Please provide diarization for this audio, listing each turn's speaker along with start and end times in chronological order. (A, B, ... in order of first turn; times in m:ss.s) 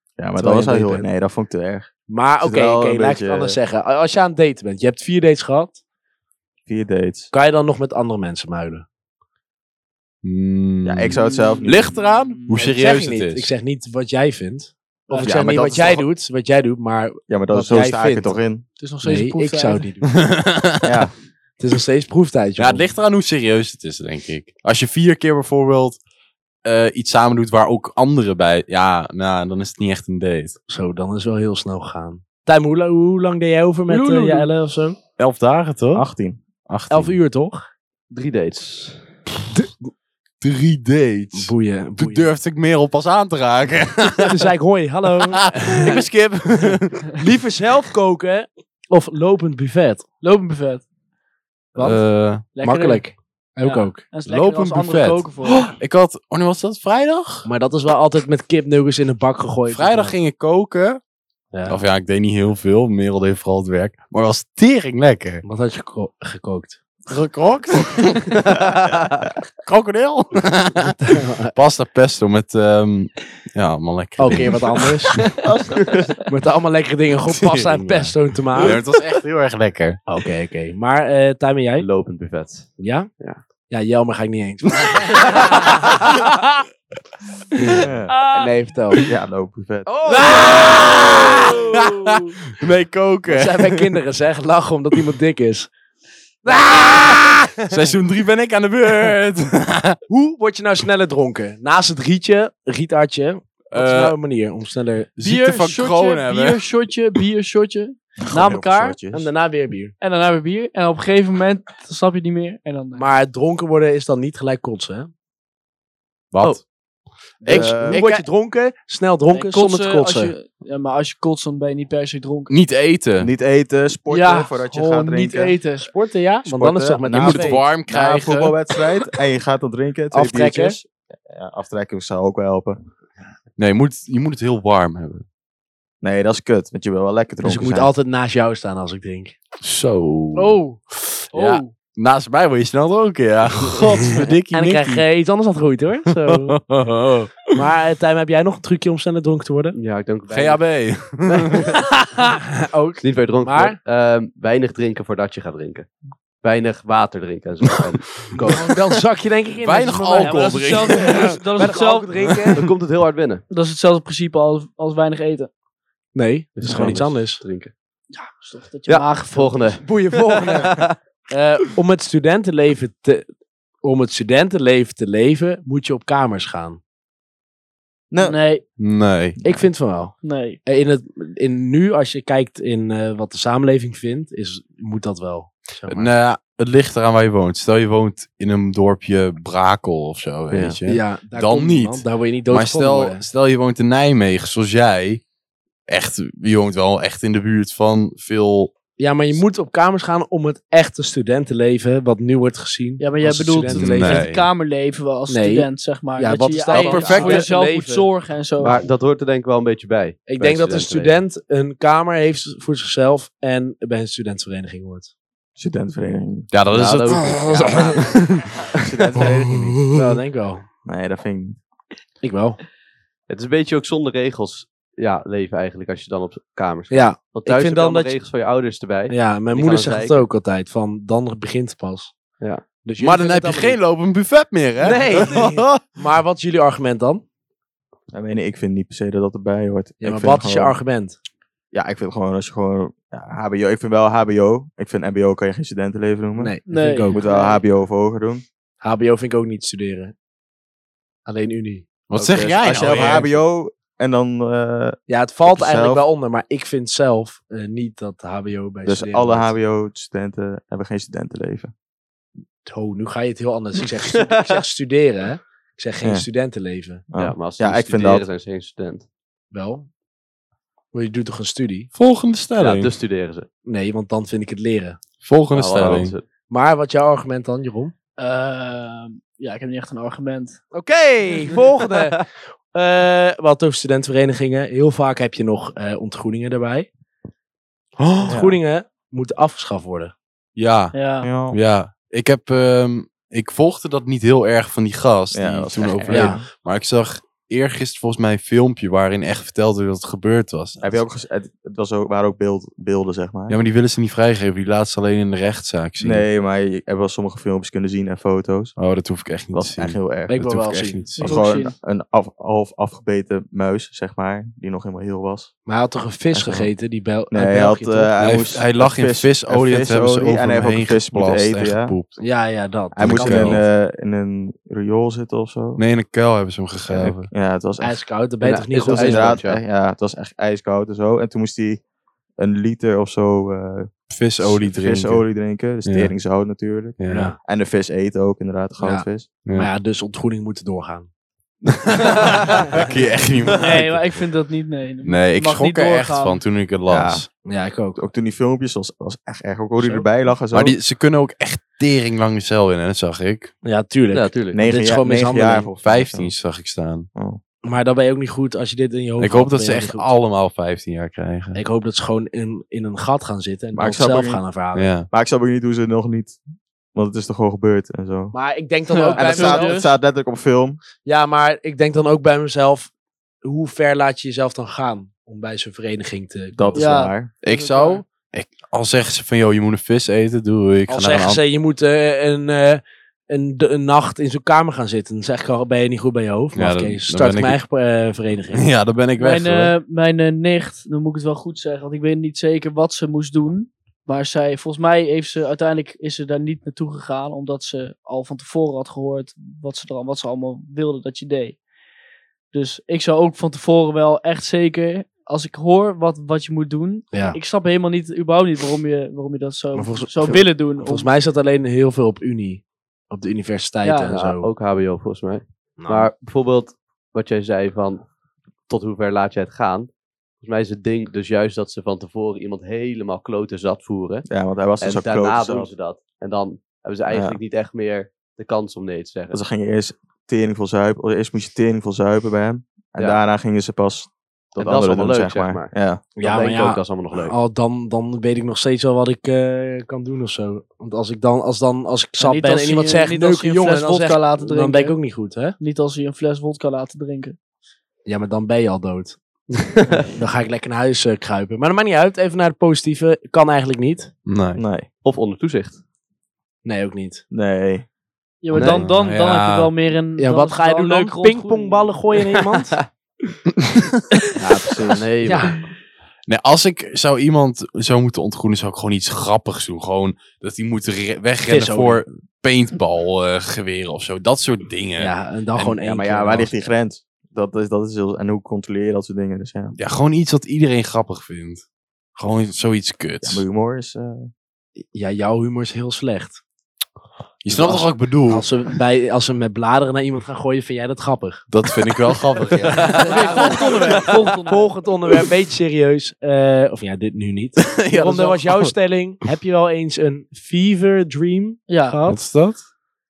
0:00.2-0:01.9 A
0:00.3-0:01.0 B
0:02.1-0:05.8 B
0:02.4-0:03.6 A
0:06.6-0:07.3 A
0:07.3-0:08.8 B
0:10.2-0:13.5 C
0:10.8-0:12.0 A
0:12.1-0:12.5 D
0:12.5-0:18.4 B
0:15.1-0:15.4 D
0:15.2-0:16.1 A
0:17.3-0:18.6 A
0:18.8-0:20.0 D
0:19.0-0:20.1 B
0:20.0-0:21.0 C
0:20.8-0:21.1 A
0:21.6-0:22.9 B
0:22.6-0:26.0 C
0:26.6-0:30.6 C
0:30.7-0:35.0 B
0:33.9-0:34.5 D
0:35.2-0:36.0 C
0:35.9-0:36.4 A
0:36.7-0:37.2 C
0:36.9-0:37.7 B
0:38.1-0:39.0 E
0:40.4-0:44.4 C
0:41.3-0:42.2 B
0:44.2-0:46.0 B
0:45.5-0:47.2 C
0:46.6-0:50.0 B
0:50.2-0:50.8 D
0:51.7-0:54.0 B
0:51.8-0:52.4 C
0:52.5-0:53.1 D
0:53.6-0:55.7 D
0:54.2-0:57.5 C
0:57.4-1:00.2 B
0:59.7-1:01.0 C
1:01.7-1:05.4 C
1:05.4-1:06.8 B
1:07.0-1:08.5 C
1:08.3-1:09.3 E
1:09.6-1:15.2 C
1:10.8-1:11.5 B
1:14.2-1:15.3 B
1:16.2-1:18.8 B
1:17.3-1:20.0 C
1:20.1-1:21.9 B
1:21.8-1:23.4 E
1:22.8-1:23.1 B
1:23.7-1:26.2 B
1:24.9-1:26.1 C
1:27.6-1:27.8 C
1:27.6-1:29.0 B
1:27.8-1:28.1 A
1:28.1-1:28.5 D
1:29.0-1:29.9 A
1:29.9-1:31.0 B
1:30.1-1:33.8 C
1:30.1-1:32.3 D
1:33.3-1:35.7 B
1:36.4-1:37.4 B
1:36.5-1:40.0 C
1:40.1-1:45.1 B
1:43.7-1:44.2 C
1:45.2-1:46.7 C
1:45.2-1:49.0 D
1:48.3-1:49.3 A
1:49.1-1:49.9 B
1:50.0-1:53.1 D
1:53.0-1:55.1 B
1:56.3-1:56.6 C
1:57.4-2:00.3 B
1:57.4-1:58.0 A
1:57.5-1:58.2 C
1:59.3-2:02.5 D
2:02.5-2:03.3 C
2:03.2-2:05.6 A
2:04.1-2:05.9 D
2:05.8-2:07.6 B
2:06.4-2:12.8 A
2:07.1-2:08.6 C
2:10.1-2:10.8 B
2:13.6-2:15.2 C
2:16.0-2:17.9 A
2:17.4-2:19.4 B
2:19.6-2:20.6 C
2:20.3-2:21.8 D
2:21.3-2:25.0 C
2:24.5-2:26.6 B
2:26.3-2:27.5 C
2:27.5-2:29.8 B
2:29.7-2:30.7 E
2:30.3-2:31.8 C
2:32.6-2:33.8 B
2:33.0-2:38.3 E
2:38.3-2:42.6 B
2:39.6-2:41.4 C
2:40.2-2:42.2 D
2:42.6-2:43.4 E
2:43.5-2:45.5 D
2:46.1-2:47.4 B
2:46.6-2:47.7 E
2:48.1-2:49.7 D
2:48.9-2:51.0 E
2:49.8-2:50.8 B
2:51.3-2:53.2 B
2:53.8-2:56.8 B
2:58.1-2:58.4 A
2:58.2-2:58.6 D
2:58.8-2:59.4 C
2:59.4-2:59.7 A
2:59.4-3:00.1 B
3:00.2-3:00.6 D
3:00.6-3:06.1 B
3:05.9-3:15.2 C
3:10.8-3:13.2 B
3:15.9-3:18.8 C
3:19.0-3:24.3 B
3:23.0-3:28.8 D
3:23.7-3:24.5 C
3:25.3-3:28.1 B
3:26.7-3:27.4 C
3:27.0-3:27.4 E
3:28.6-3:31.2 E
3:30.3-3:35.1 B
3:35.6-3:36.5 A
3:36.5-3:38.5 C
3:36.7-3:38.3 E
3:38.8-3:39.8 A
3:39.9-3:40.7 B
3:40.8-3:41.6 A
3:42.2-3:42.6 B
3:43.3-3:50.3 E
3:46.9-3:48.1 B
3:49.1-3:52.1 B
3:52.8-3:53.8 B
3:53.0-3:55.8 C
3:54.8-3:57.2 B
3:58.1-4:00.8 A
4:00.0-4:01.2 B
4:01.7-4:06.6 A
4:06.4-4:07.2 B
4:06.7-4:07.6 D
4:07.1-4:08.4 A
4:08.8-4:10.1 B
4:11.2-4:11.9 B
4:12.1-4:13.3 C
4:12.1-4:16.0 A
4:15.1-4:19.5 B
4:18.8-4:21.7 A
4:22.6-4:27.0 B
4:24.1-4:24.6 E
4:27.1-4:28.2 A
4:27.2-4:29.0 E
4:29.5-4:29.9 B
4:30.9-4:31.9 B
4:31.9-4:32.9 C
4:32.6-4:33.5 E
4:33.6-4:35.0 B
4:35.2-4:36.1 C
4:35.5-4:36.2 E
4:36.5-4:37.9 B
4:38.2-4:40.6 D
4:40.7-4:46.9 B
4:48.0-4:48.4 C
4:48.2-4:50.1 B
4:48.3-4:48.6 A
4:50.6-5:01.0 C
4:50.9-4:51.3 D
4:51.2-4:51.6 A
4:55.3-4:56.4 A
4:56.1-4:56.4 B
5:00.8-5:03.6 A
5:03.5-5:06.2 C
5:06.0-5:08.8 A
5:08.8-5:11.4 C
5:09.5-5:10.4 A
5:10.3-5:11.0 B
5:11.2-5:11.7 D
5:11.2-5:15.5 A
5:15.6-5:18.1 B
5:16.3-5:16.7 A
5:17.3-5:22.0 A
5:18.2-5:22.2 C
5:22.2-5:23.6 B
5:22.9-5:25.8 A
5:23.0-5:23.6 C
5:25.8-5:27.3 C
5:26.9-5:28.0 A
5:27.8-5:29.4 B
5:28.4-5:29.6 E
5:28.8-5:31.8 A
5:32.4-5:39.3 A
5:34.1-5:35.2 C
5:35.8-5:36.1 C
5:37.0-5:37.3 C
5:37.1-5:37.4 B
5:38.8-5:41.1 B
5:39.4-5:39.7 C
5:41.7-5:44.1 C
5:43.6-5:46.4 D
5:45.0-5:47.2 C
5:46.9-5:47.2 A
5:47.4-5:48.0 B
5:48.0-5:50.8 A
5:50.5-5:53.5 C
5:53.6-5:55.7 B
5:54.1-5:54.6 E
5:54.5-5:56.3 A
5:55.8-5:57.1 C
5:57.1-5:57.4 A
5:57.6-6:00.1 B
5:59.2-6:01.6 C
6:01.5-6:04.9 B
6:03.7-6:04.4 A
6:04.7-6:05.1 C
6:05.1-6:06.4 A
6:06.9-6:08.3 A
6:08.3-6:09.8 B
6:08.9-6:09.9 D
6:09.2-6:10.8 A
6:11.0-6:12.9 B
6:13.4-6:17.0 B
6:16.5-6:17.3 A
6:16.7-6:18.0 D
6:17.4-6:21.4 C
6:20.9-6:28.7 B
6:26.5-6:27.6 C
6:28.5-6:29.7 C
6:29.2-6:41.6 D
6:42.5-6:51.1 D
6:47.1-6:47.4 B
6:49.7-6:54.5 B
6:53.8-6:54.2 D
6:54.1-6:58.1 E
6:55.8-6:56.1 B
6:58.7-7:04.3 E
7:04.3-7:05.7 A
7:04.8-7:09.4 E
7:07.1-7:07.4 A
7:09.3-7:16.0 A
7:14.6-7:17.3 E
7:16.2-7:25.6 B
7:22.2-7:25.0 D
7:25.6-7:27.4 D
7:28.0-7:29.2 B
7:29.7-7:30.0 E
7:30.1-7:34.1 B
7:34.3-7:34.6 C
7:34.6-7:34.9 A
7:35.0-7:35.8 E
7:36.6-7:37.2 B
7:37.3-7:37.8 A
7:38.4-7:42.0 D
7:38.5-7:39.7 C
7:38.5-7:38.8 B
7:40.2-7:42.8 B
7:43.6-7:44.0 C
7:44.4-7:45.6 B
7:44.7-7:45.0 A
7:44.8-7:45.6 E
7:46.2-7:55.1 C
7:51.4-7:52.0 B
7:55.0-7:56.5 B
7:55.6-7:59.7 A
7:59.8-8:01.6 C
8:02.2-8:03.4 C
8:03.2-8:04.3 A
8:04.9-8:06.4 B
8:07.4-8:08.5 C
8:07.5-8:11.4 B
8:11.5-8:14.2 C
8:12.9-8:14.7 D
8:12.9-8:22.2 B
8:17.6-8:18.7 C
8:21.7-8:22.0 D
8:22.0-8:22.6 C